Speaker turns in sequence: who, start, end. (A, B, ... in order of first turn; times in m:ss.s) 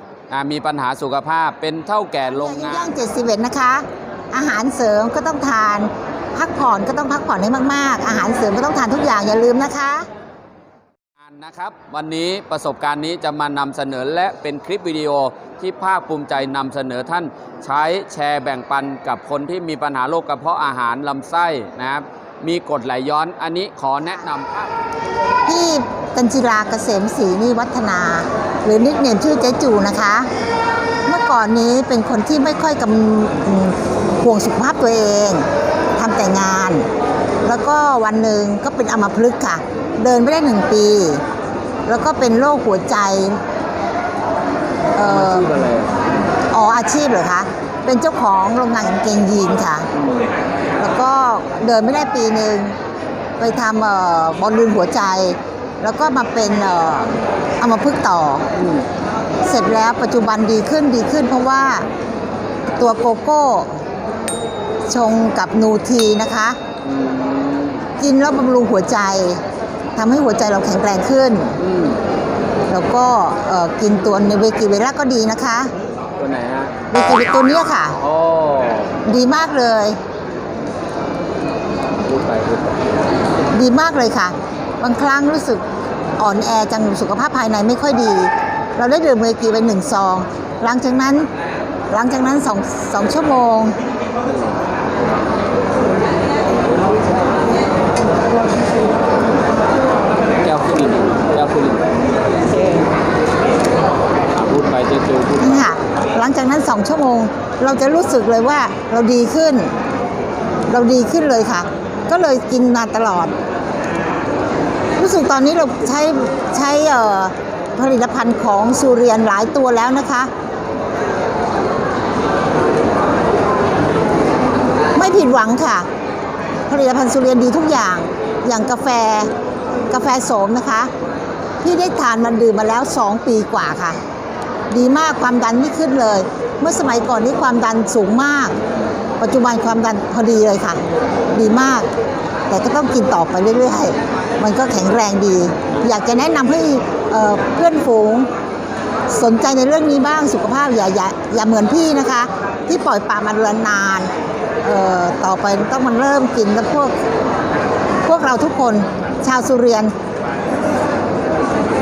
0:00.3-0:02.9 A
0:02.3-0:10.0 B
0:11.2-0:24.7 A
0:25.4-0:30.3 B
0:31.0-0:36.8 B
0:37.4-0:41.2 B
0:41.8-0:43.4 B
0:44.9-0:45.5 B
0:45.0-0:46.1 A
0:46.5-0:49.9 B
0:49.9-0:50.3 A
0:50.8-0:52.8 B
0:53.4-0:58.5 B
0:58.5-0:58.8 A
0:59.4-1:01.9 B
1:02.7-1:03.8 B
1:04.8-1:06.6 B
1:06.8-1:07.8 A
1:08.0-1:09.4 B
1:10.0-1:11.6 B
1:11.6-1:12.0 A
1:12.7-1:15.7 B
1:16.2-1:16.7 A
1:16.9-1:18.0 B
1:18.0-1:19.0 A
1:19.0-1:20.0 B
1:22.0-1:22.8 A
1:23.5-1:25.6 B
1:26.2-1:31.3 B
1:31.9-1:33.8 B
1:40.4-1:41.9 A
1:44.3-1:45.8 A
1:45.4-1:49.7 B
1:50.7-1:53.3 B
1:55.0-2:00.3 B
2:04.9-2:05.9 B
2:06.7-2:09.3 B
2:09.9-2:10.9 B
2:11.6-2:14.0 B
2:14.7-2:18.5 B
2:19.2-2:20.8 B
2:21.3-2:21.9 B
2:22.5-2:28.3 B
2:29.1-2:34.1 B
2:34.6-2:36.9 B
2:38.0-2:39.9 B